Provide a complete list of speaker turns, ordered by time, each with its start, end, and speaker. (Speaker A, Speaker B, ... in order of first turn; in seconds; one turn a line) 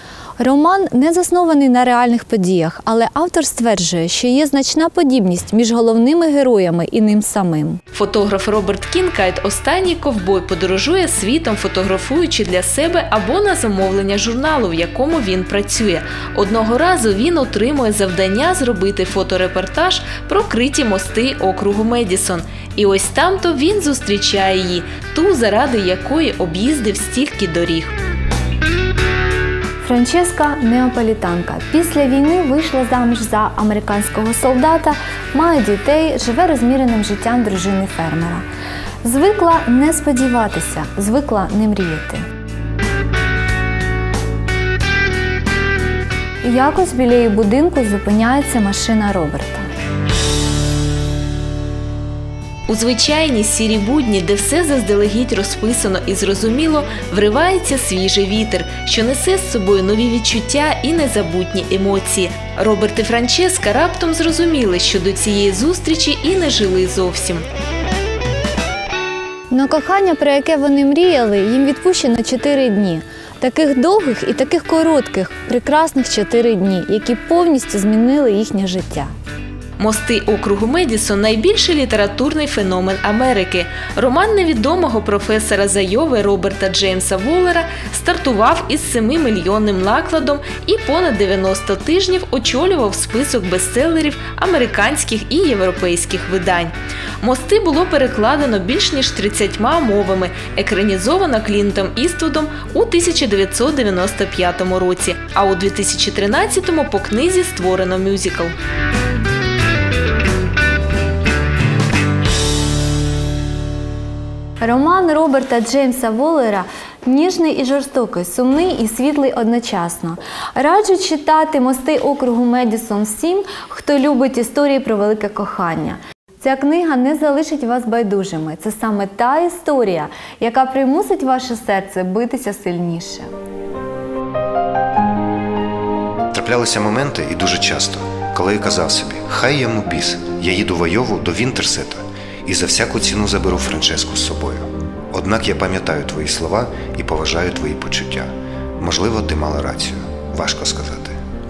Speaker A: 0.4-7.8
Speaker B: 7.9-27.9
Speaker A: 29.8-38.4
Speaker A: 39.0-42.2
Speaker A: 46.4-49.7
Speaker B: 52.7-67.4
Speaker A: 69.5-79.1
Speaker B: 79.8-108.5
Speaker A: 114.6-133.3
Speaker C: 136.3-151.2